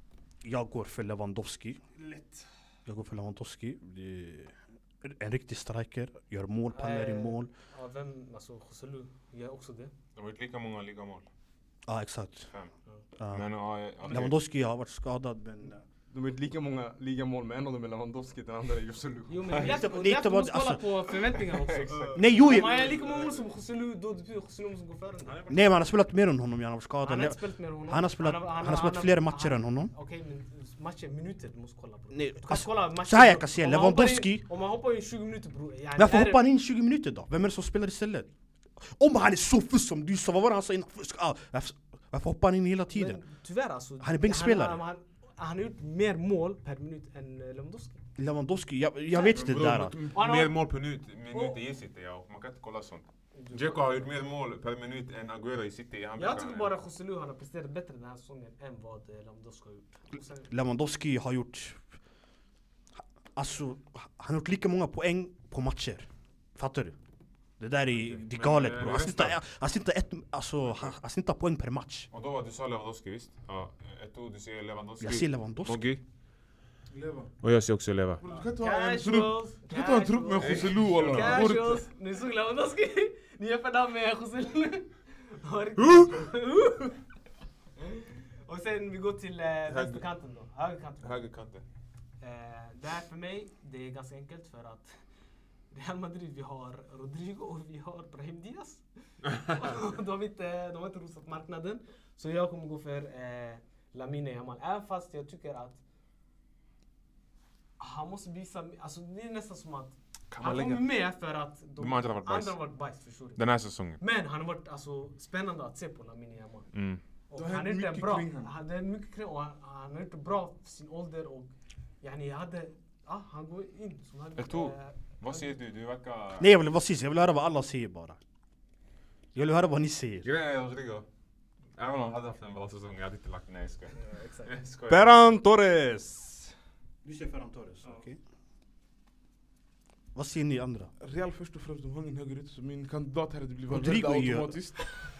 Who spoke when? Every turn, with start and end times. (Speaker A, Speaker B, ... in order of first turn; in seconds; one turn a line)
Speaker A: 0.4-1.8
Speaker B: 2.0-2.4
Speaker A: 2.9-7.5
Speaker B: 6.7-9.9
Speaker C: 10.1-11.3
Speaker A: 11.9-12.5
Speaker A: 13.2-13.4
Speaker C: 13.3-14.4
Speaker A: 14.0-15.8
Speaker D: 16.1-19.7
Speaker B: 19.3-25.4
Speaker A: 19.6-20.8
Speaker C: 21.4-22.2
Speaker D: 21.9-23.3
Speaker A: 22.1-22.9
Speaker D: 25.2-25.7
Speaker A: 25.5-29.9
Speaker B: 27.0-36.4
Speaker A: 32.1-34.4
Speaker A: 36.0-38.3
Speaker A: 38.9-43.2
Speaker B: 42.9-48.0
Speaker A: 44.0-44.8
Speaker A: 48.2-50.0
Speaker B: 49.1-49.4
Speaker C: 49.2-56.8
Speaker E: 49.7-50.2
Speaker B: 50.1-50.6
Speaker B: 51.3-51.6
Speaker B: 53.3-54.0
Speaker B: 56.2-60.5
Speaker A: 60.5-61.8
Speaker A: 63.4-66.9
Speaker A: 67.6-72.1
Speaker C: 67.9-69.4
Speaker C: 72.1-76.0
Speaker A: 75.0-75.8
Speaker E: 76.9-77.3
Speaker C: 77.4-78.2
Speaker E: 78.2-81.8
Speaker B: 78.3-87.0
Speaker C: 80.4-81.4
Speaker C: 85.8-86.1
Speaker B: 87.8-91.2
Speaker C: 89.7-90.0
Speaker C: 91.0-91.6
Speaker B: 92.2-94.9
Speaker B: 95.7-105.8
Speaker B: 107.8-113.4
Speaker C: 110.3-110.9
Speaker C: 111.8-112.6
Speaker C: 113.3-114.0
Speaker B: 114.0-116.7
Speaker C: 116.7-117.0
Speaker B: 117.3-125.5
Speaker E: 117.3-118.5
Speaker C: 124.4-126.5
Speaker A: 126.4-128.2
Speaker A: 129.3-130.3
Speaker C: 130.2-131.1
Speaker C: 131.8-135.3
Speaker B: 133.9-134.5
Speaker D: 134.9-136.5
Speaker A: 137.0-138.2
Speaker A: 140.1-140.9
Speaker E: 141.0-144.9
Speaker A: 143.7-144.6